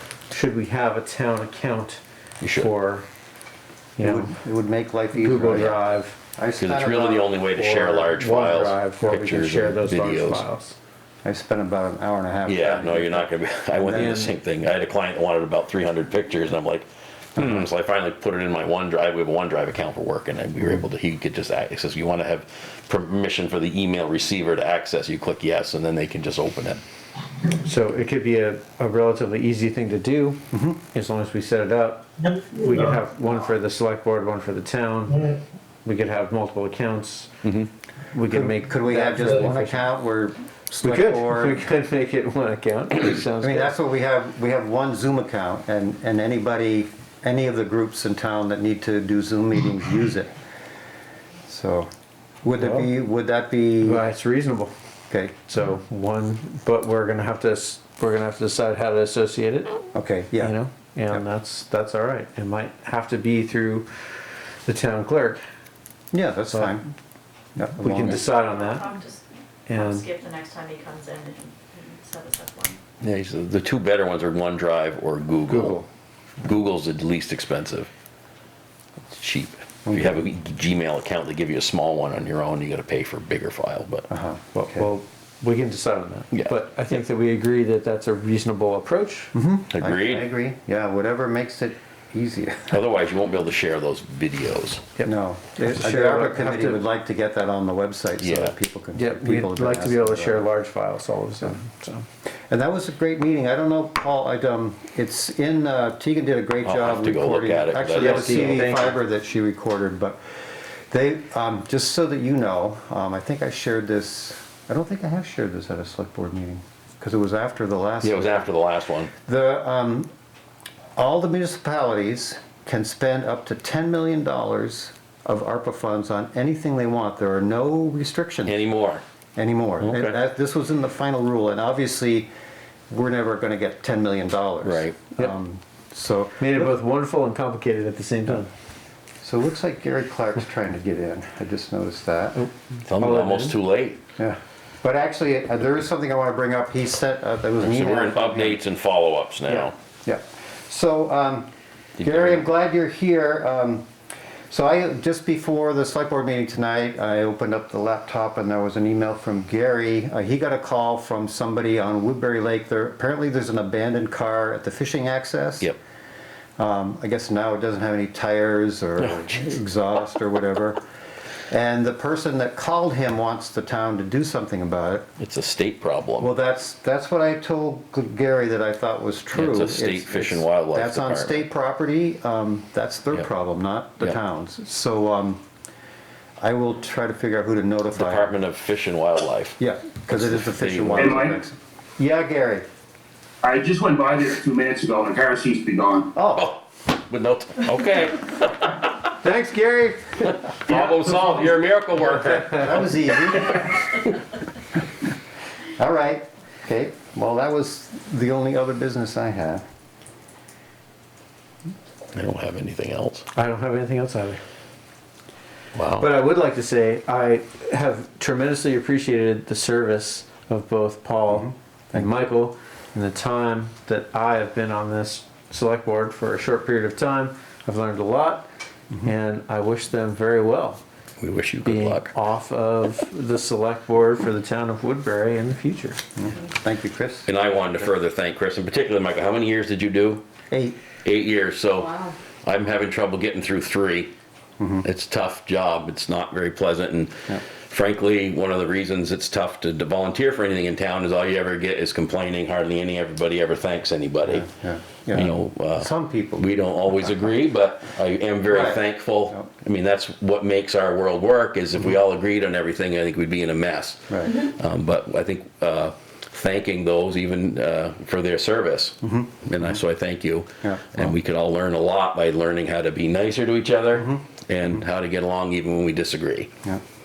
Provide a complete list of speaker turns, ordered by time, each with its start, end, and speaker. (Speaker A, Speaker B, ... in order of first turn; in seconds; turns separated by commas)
Speaker A: 0.3-2.0, Speaker B: 2.4-2.7, Speaker A: 2.5-3.0, Speaker A: 4.0-4.3, Speaker C: 4.0-5.8, Speaker A: 5.1-6.2, Speaker C: 6.3-7.3, Speaker B: 6.6-10.4, Speaker A: 7.6-10.8, Speaker C: 11.2-14.2, Speaker B: 12.4-26.8, Speaker A: 13.9-14.3, Speaker C: 17.4-17.6, Speaker A: 27.5-30.4, Speaker C: 30.5-30.8, Speaker A: 30.9-37.5, Speaker A: 38.1-39.8, Speaker C: 38.3-41.6, Speaker A: 40.8-43.7, Speaker C: 43.4-50.3, Speaker C: 51.5-51.9, Speaker C: 52.4-54.0, Speaker A: 52.6-52.9, Speaker A: 53.8-54.7, Speaker C: 55.1-55.4, Speaker A: 55.4-59.8, Speaker C: 59.9-60.5, Speaker A: 60.4-63.9, Speaker A: 64.6-65.4, Speaker C: 66.1-66.9, Speaker A: 66.5-66.8, Speaker C: 67.5-68.2, Speaker A: 67.8-68.9, Speaker D: 68.2-72.8, Speaker A: 69.7-70.1, Speaker B: 73.0-75.8, Speaker C: 75.5-75.9, Speaker B: 76.4-77.9, Speaker B: 79.1-84.1, Speaker C: 79.9-80.2, Speaker C: 84.1-84.9, Speaker A: 84.5-89.3, Speaker C: 89.3-92.8, Speaker B: 89.7-90.2, Speaker B: 92.7-94.8, Speaker A: 95.0-96.8, Speaker C: 95.0-100.5, Speaker B: 98.2-98.5, Speaker A: 98.9-102.0, Speaker C: 102.5-110.2, Speaker B: 106.6-108.8, Speaker A: 108.0-109.0, Speaker C: 110.9-118.5, Speaker B: 118.0-119.1, Speaker C: 119.2-120.1, Speaker C: 121.0-128.6, Speaker B: 128.4-129.0, Speaker C: 129.3-132.3, Speaker B: 129.8-130.2, Speaker C: 132.9-136.8, Speaker B: 134.6-135.0, Speaker A: 136.4-138.5, Speaker C: 139.2-142.4, Speaker A: 142.3-143.6, Speaker B: 142.8-144.0, Speaker C: 144.2-148.6, Speaker B: 147.6-149.7, Speaker C: 149.5-153.8, Speaker B: 152.0-152.4, Speaker C: 154.5-165.7, Speaker C: 166.6-170.8, Speaker B: 169.1-169.4, Speaker C: 171.5-175.1, Speaker B: 175.2-176.3, Speaker C: 176.2-185.4, Speaker B: 179.3-181.4, Speaker C: 186.4-188.3, Speaker B: 187.9-191.2, Speaker C: 189.6-192.7, Speaker E: 191.0-191.4, Speaker E: 193.4-196.1, Speaker C: 196.1-196.5, Speaker B: 196.3-199.1, Speaker A: 199.2-200.8, Speaker B: 200.3-202.8, Speaker C: 202.5-203.7, Speaker B: 203.3-203.9, Speaker C: 205.8-209.6, Speaker B: 212.1-213.3, Speaker A: 213.3-214.4, Speaker B: 215.7-216.1, Speaker A: 216.0-228.4, Speaker C: 221.3-222.1, Speaker A: 229.0-230.8, Speaker B: 231.2-232.1, Speaker A: 231.6-236.0, Speaker C: 236.2-237.3, Speaker B: 237.3-240.2, Speaker C: 240.5-240.8, Speaker B: 241.0-244.1, Speaker D: 241.8-242.1, Speaker C: 244.6-244.8, Speaker B: 244.8-254.4, Speaker C: 254.2-257.4, Speaker B: 255.1-276.5, Speaker C: 258.5-259.5, Speaker C: 264.1-264.4, Speaker C: 269.0-269.8, Speaker C: 270.6-271.1, Speaker C: 273.9-274.2